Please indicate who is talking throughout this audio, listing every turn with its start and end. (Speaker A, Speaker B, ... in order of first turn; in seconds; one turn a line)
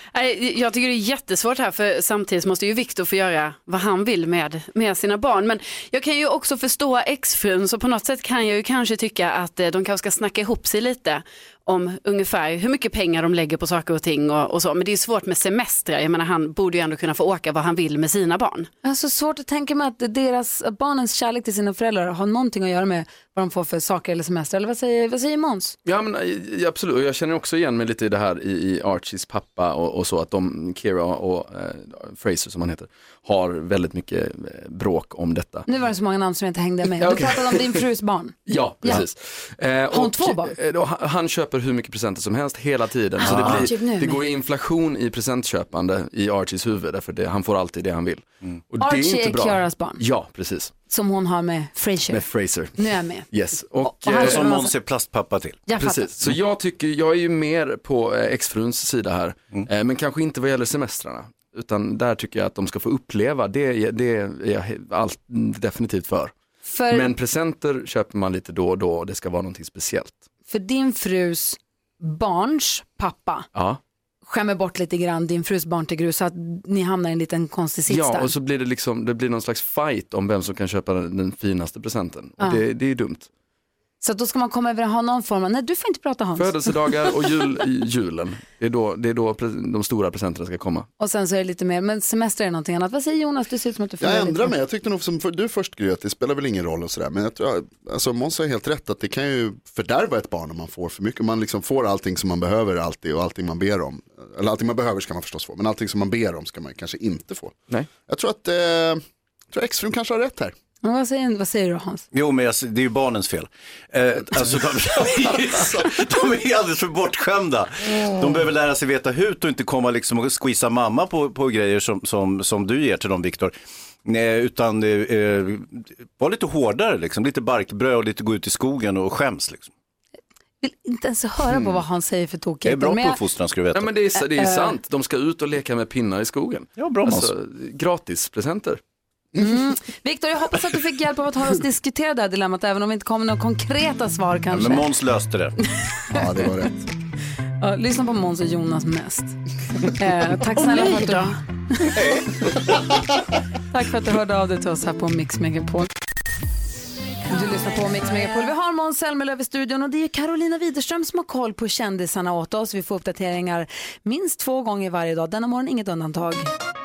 Speaker A: 0.1-18.7
Speaker B: 18.8-25.8
Speaker C: 25.8-35.6
Speaker B: 35.6-39.0
Speaker C: 37.0-37.8
Speaker C: 38.5-50.7
Speaker B: 39.9-40.5
Speaker B: 43.2-44.2
Speaker D: 43.2-43.7
Speaker B: 48.8-50.0
Speaker B: 50.9-53.3
Speaker C: 52.1-54.5
Speaker B: 53.8-54.7
Speaker D: 54.1-55.6
Speaker B: 55.7-56.1
Speaker C: 55.7-66.3
Speaker B: 66.7-67.1
Speaker C: 66.9-70.2
Speaker B: 70.5-73.5
Speaker C: 73.5-73.8
Speaker B: 74.2-78.3
Speaker C: 77.9-83.3
Speaker B: 84.0-86.7
Speaker C: 86.3-90.9
Speaker B: 91.0-94.5
Speaker E: 94.0-110.5
Speaker B: 110.8-112.0
Speaker D: 112.1-129.7
Speaker B: 130.6-133.2
Speaker D: 132.6-133.9
Speaker C: 133.7-138.8
Speaker B: 134.3-134.8
Speaker D: 136.8-137.3
Speaker B: 139.4-144.9
Speaker D: 144.5-145.6
Speaker E: 146.1-146.9
Speaker B: 147.6-152.0
Speaker A: 150.6-151.3
Speaker B: 153.7-155.9
Speaker B: 157.3-166.5